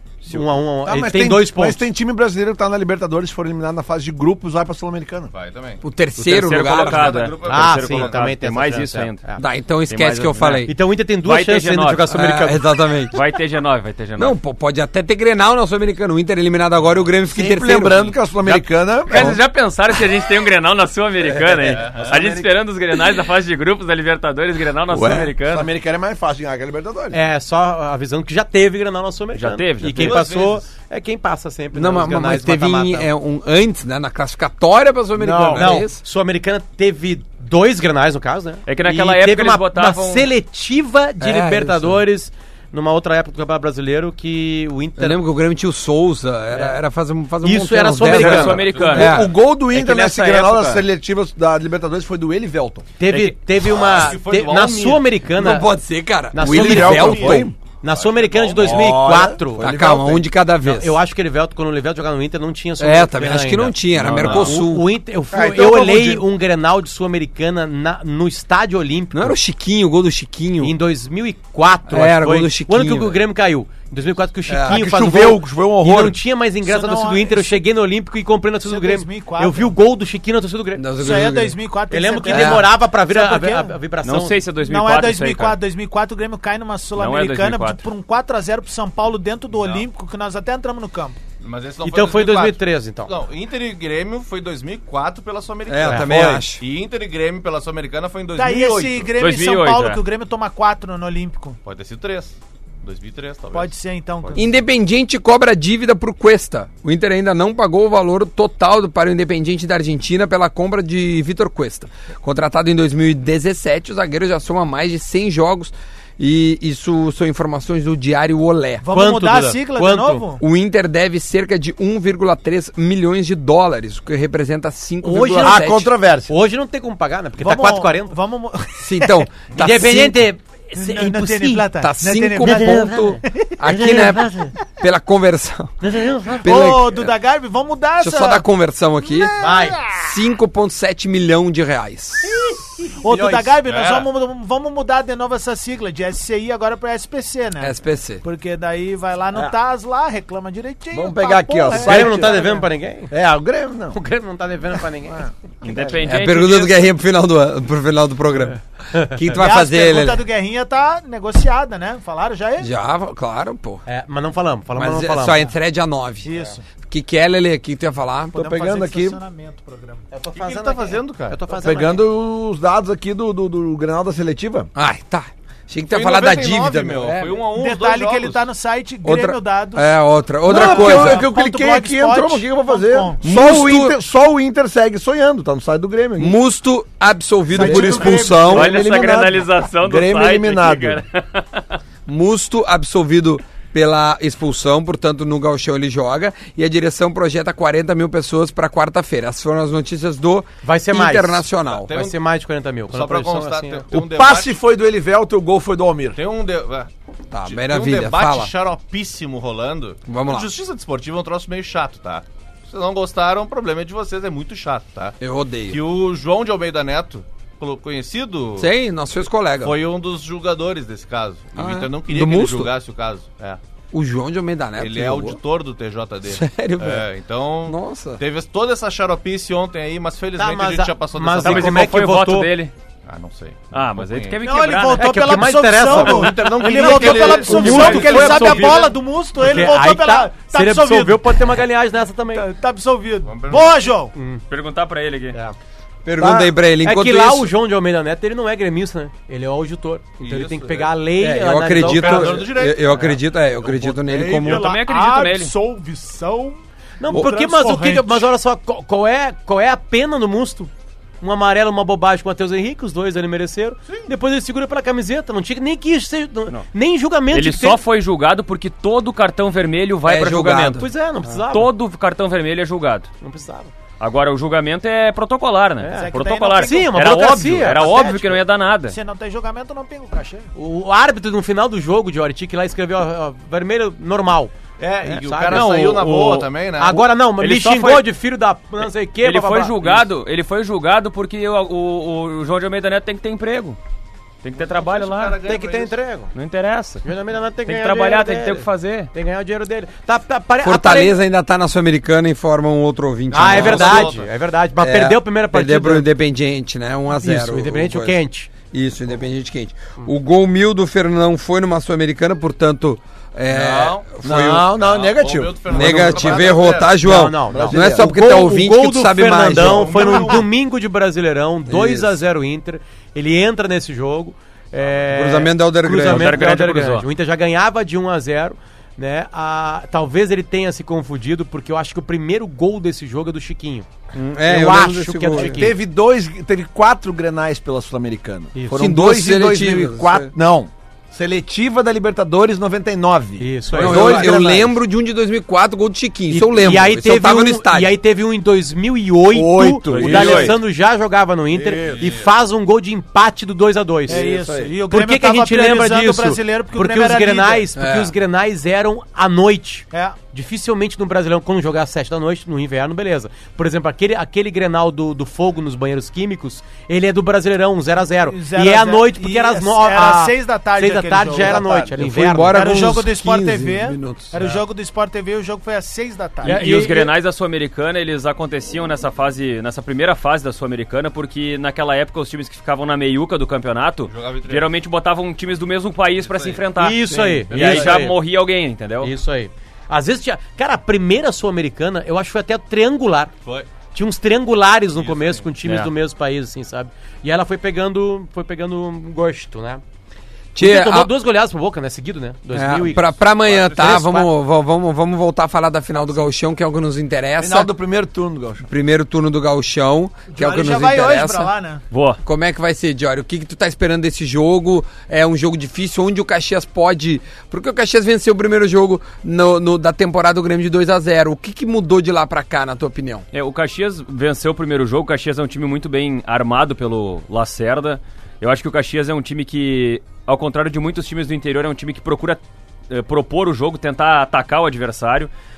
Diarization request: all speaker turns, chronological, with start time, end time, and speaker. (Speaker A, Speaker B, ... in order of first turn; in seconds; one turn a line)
Speaker A: 0.3-1.9
Speaker B: 0.8-5.3
Speaker C: 5.3-5.8
Speaker D: 5.8-7.3
Speaker E: 6.2-9.2
Speaker C: 6.6-8.3
Speaker A: 7.4-9.4
Speaker D: 9.4-10.7
Speaker E: 9.9-10.7
Speaker A: 10.7-12.6
Speaker E: 11.2-12.1
Speaker D: 12.1-13.2
Speaker E: 13.1-14.4
Speaker D: 14.2-18.1
Speaker B: 17.3-19.4
Speaker E: 18.4-25.7
Speaker C: 21.7-22.2
Speaker B: 21.9-22.4
Speaker B: 24.9-27.2
Speaker A: 27.1-33.1
Speaker E: 29.3-30.2
Speaker C: 29.9-30.7
Speaker D: 31.7-36.0
Speaker A: 35.2-45.2
Speaker E: 38.7-40.3
Speaker D: 41.2-42.0
Speaker D: 45.0-49.3
Speaker A: 46.5-46.8
Speaker A: 47.4-48.6
Speaker E: 48.1-50.8
Speaker C: 48.6-49.1
Speaker B: 48.9-52.9
Speaker A: 53.0-55.7
Speaker E: 53.1-53.4
Speaker C: 53.6-55.1
Speaker D: 55.4-57.5
Speaker A: 56.3-59.7
Speaker B: 56.4-57.6
Speaker C: 57.0-57.4
Speaker C: 57.9-59.0
Speaker B: 58.6-60.3
Speaker D: 59.6-61.0
Speaker A: 60.6-69.3
Speaker D: 62.8-64.9
Speaker E: 64.0-64.5
Speaker B: 65.3-66.3
Speaker D: 69.1-70.8
Speaker A: 70.6-81.2
Speaker D: 71.9-73.2
Speaker D: 74.5-74.8
Speaker B: 74.7-76.2
Speaker F: 76.6-77.6
Speaker F: 78.6-79.7
Speaker D: 80.8-81.6
Speaker F: 81.0-83.8
Speaker A: 81.9-84.4
Speaker D: 82.3-82.7
Speaker E: 84.0-85.6
Speaker F: 84.6-91.2
Speaker E: 87.0-87.8
Speaker C: 89.5-89.9
Speaker C: 91.4-99.1
Speaker A: 91.8-93.1
Speaker D: 95.7-96.6
Speaker A: 95.8-96.4
Speaker F: 98.3-101.6
Speaker E: 99.2-100.0
Speaker C: 101.6-103.7
Speaker F: 103.5-104.5
Speaker D: 104.3-118.8
Speaker F: 118.8-120.4
Speaker A: 118.9-120.2
Speaker D: 120.4-125.9
Speaker A: 125.0-125.6
Speaker B: 125.1-126.3
Speaker A: 126.3-128.1
Speaker F: 127.4-129.2
Speaker D: 128.8-130.3
Speaker A: 129.5-131.7
Speaker F: 130.8-132.9
Speaker D: 131.8-135.7
Speaker A: 132.4-133.2
Speaker A: 133.7-134.5
Speaker A: 135.8-136.7
Speaker D: 136.4-137.1
Speaker F: 136.4-138.4
Speaker D: 138.0-139.3
Speaker F: 139.1-140.0
Speaker A: 139.4-139.8
Speaker D: 140.0-142.3
Speaker F: 143.0-152.6
Speaker B: 143.1-143.5
Speaker C: 143.6-144.1
Speaker D: 147.6-148.2
Speaker B: 150.9-154.0
Speaker A: 151.7-153.1
Speaker A: 153.9-155.3
Speaker B: 155.1-156.0
Speaker E: 155.6-156.9
Speaker D: 156.1-160.2
Speaker F: 159.3-162.7
Speaker D: 162.6-163.8
Speaker A: 163.9-165.5
Speaker D: 164.8-166.3
Speaker F: 166.2-166.6
Speaker D: 166.9-168.4
Speaker F: 168.3-170.0
Speaker B: 168.4-169.2
Speaker A: 170.1-172.0
Speaker C: 170.3-171.4
Speaker B: 171.6-174.7
Speaker D: 174.8-177.4
Speaker C: 175.9-178.5
Speaker F: 177.5-183.2
Speaker D: 179.0-181.3
Speaker B: 180.4-186.4
Speaker D: 183.2-184.0
Speaker D: 186.2-188.8
Speaker F: 187.5-188.6
Speaker B: 187.6-191.0
Speaker E: 188.5-191.8
Speaker D: 192.1-201.9
Speaker A: 200.6-203.8
Speaker C: 201.7-202.2
Speaker C: 202.9-204.6
Speaker B: 203.9-206.2
Speaker C: 206.2-206.9
Speaker D: 207.3-208.5
Speaker C: 207.4-215.2
Speaker D: 210.1-210.5
Speaker D: 215.2-215.8
Speaker C: 215.7-218.7
Speaker D: 218.6-219.8
Speaker C: 219.6-223.6
Speaker D: 221.6-222.7
Speaker D: 223.9-225.4
Speaker C: 224.8-231.9
Speaker D: 226.3-227.1
Speaker D: 227.7-228.2
Speaker A: 230.4-232.5
Speaker E: 231.4-232.7
Speaker C: 233.1-234.4
Speaker E: 233.7-235.2
Speaker F: 234.4-241.3
Speaker A: 235.0-242.5
Speaker C: 235.8-238.9
Speaker E: 237.7-238.3
Speaker F: 242.3-244.1
Speaker C: 243.2-243.9
Speaker A: 244.1-244.4
Speaker E: 244.5-245.4
Speaker D: 246.1-247.5
Speaker A: 246.2-253.2
Speaker C: 250.2-251.0
Speaker D: 251.2-254.7
Speaker C: 251.8-254.4
Speaker F: 254.3-258.3
Speaker E: 254.4-255.5
Speaker A: 257.0-267.8
Speaker E: 267.3-270.9
Speaker D: 270.1-270.9
Speaker A: 270.8-271.7
Speaker E: 271.5-273.1
Speaker A: 273.2-273.7
Speaker E: 274.0-279.0
Speaker A: 275.8-278.4
Speaker F: 275.9-277.1
Speaker F: 277.8-278.3
Speaker F: 278.9-280.5
Speaker A: 280.6-290.0
Speaker C: 284.8-287.1
Speaker E: 287.3-288.1
Speaker E: 289.2-293.8
Speaker E: 294.4-295.4
Speaker C: 294.5-296.0
Speaker A: 295.4-296.3
Speaker E: 296.3-297.1
Speaker A: 297.0-301.2
Speaker E: 297.6-299.1
Speaker D: 300.6-304.2
Speaker A: 303.3-306.1
Speaker C: 303.4-304.3
Speaker D: 304.8-308.2
Speaker A: 307.1-308.5
Speaker D: 308.7-314.7
Speaker C: 313.5-314.2
Speaker B: 314.2-316.6
Speaker C: 314.8-317.2
Speaker D: 315.7-320.4
Speaker A: 317.0-333.9
Speaker B: 317.5-318.1
Speaker C: 319.6-320.4
Speaker D: 321.7-322.2
Speaker D: 325.1-326.4
Speaker E: 326.0-327.1
Speaker D: 334.1-335.7
Speaker A: 334.4-335.8
Speaker B: 335.4-344.8
Speaker D: 338.7-340.3
Speaker A: 343.4-344.4
Speaker D: 343.8-347.9
Speaker A: 346.3-354.2
Speaker B: 349.3-350.6
Speaker E: 349.9-350.5
Speaker B: 351.6-352.1
Speaker C: 351.7-352.3
Speaker B: 354.1-354.8
Speaker F: 354.1-357.7
Speaker A: 354.9-372.5
Speaker D: 357.8-358.1
Speaker F: 359.9-360.2
Speaker F: 368.3-371.8
Speaker B: 371.6-371.9
Speaker D: 372.0-374.4
Speaker F: 372.5-376.6
Speaker E: 376.4-389.1
Speaker A: 376.4-377.1
Speaker C: 384.1-384.7
Speaker C: 386.2-386.6
Speaker A: 386.8-388.2
Speaker B: 387.1-387.4
Speaker C: 387.5-388.1
Speaker A: 389.0-393.3
Speaker A: 393.9-399.8
Speaker C: 395.0-395.5
Speaker E: 395.6-395.9
Speaker D: 400.6-401.1
Speaker A: 400.6-404.3
Speaker D: 402.5-407.7
Speaker C: 403.0-403.8
Speaker B: 407.4-408.7
Speaker D: 408.6-411.5
Speaker F: 410.3-411.8
Speaker E: 411.9-412.2
Speaker D: 412.2-423.2
Speaker E: 423.3-435.3